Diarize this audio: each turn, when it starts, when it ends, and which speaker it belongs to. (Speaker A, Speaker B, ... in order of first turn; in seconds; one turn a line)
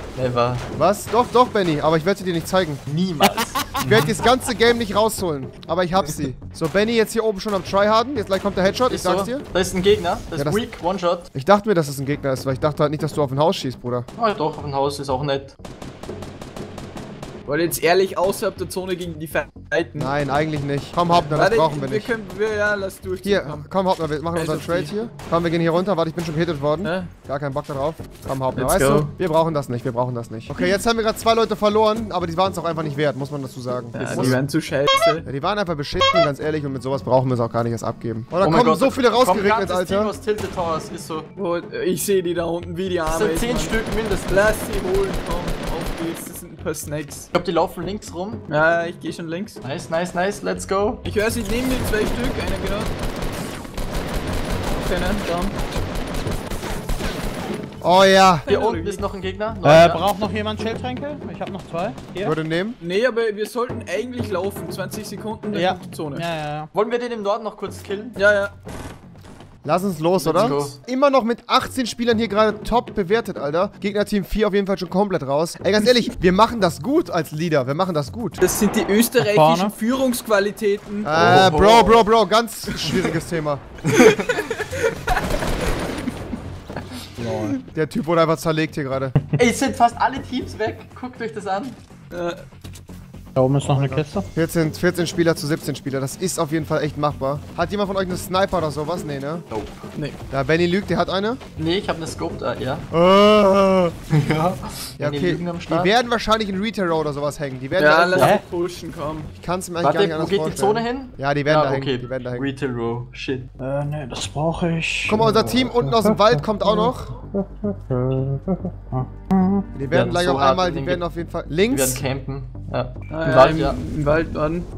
Speaker A: 0.1-0.7
Speaker B: 0.7-2.8
Speaker A: 2.9-4.2
Speaker C: 3.2-3.8
Speaker B: 3.8-9.4
Speaker A: 8.9-11.3
Speaker B: 10.3-10.6
Speaker B: 11.3-14.1
Speaker A: 14.2-15.5
Speaker D: 17.5-20.1
Speaker B: 19.9-22.1
Speaker D: 21.3-23.7
Speaker B: 23.2-34.4
Speaker D: 24.3-24.9
Speaker D: 26.8-27.1
Speaker D: 28.5-29.1
Speaker D: 30.5-30.8
Speaker D: 33.9-35.2
Speaker B: 35.2-40.1
Speaker A: 38.4-41.3
Speaker D: 41.4-43.8
Speaker A: 43.1-44.5
Speaker D: 44.3-47.3
Speaker A: 47.3-48.4
Speaker D: 48.5-49.6
Speaker A: 49.6-51.0
Speaker D: 51.0-52.9
Speaker D: 54.7-55.5
Speaker B: 57.8-58.5
Speaker D: 58.4-59.0
Speaker A: 58.5-60.1
Speaker C: 59.6-62.4
Speaker B: 62.2-62.8
Speaker D: 62.8-66.3
Speaker C: 65.5-66.7
Speaker A: 66.7-68.2
Speaker D: 68.2-68.5
Speaker B: 69.6-78.4
Speaker A: 70.2-70.8
Speaker D: 78.4-81.4
Speaker C: 79.2-79.7
Speaker B: 81.0-83.6
Speaker A: 81.1-82.1
Speaker D: 82.7-83.1
Speaker D: 83.9-86.1
Speaker C: 87.2-87.6
Speaker B: 87.7-89.1
Speaker A: 89.4-91.8
Speaker D: 92.1-92.4
Speaker C: 93.3-94.2
Speaker B: 93.6-99.5
Speaker A: 99.5-99.8
Speaker B: 100.3-101.4
Speaker A: 101.6-102.8
Speaker B: 102.9-104.0
Speaker A: 104.1-105.9
Speaker B: 105.0-108.3
Speaker D: 107.8-109.3
Speaker B: 109.4-112.5
Speaker A: 109.8-113.5
Speaker C: 113.6-119.7
Speaker B: 115.1-117.1
Speaker B: 119.7-122.0
Speaker A: 119.9-121.0
Speaker A: 121.7-123.8
Speaker D: 123.1-124.7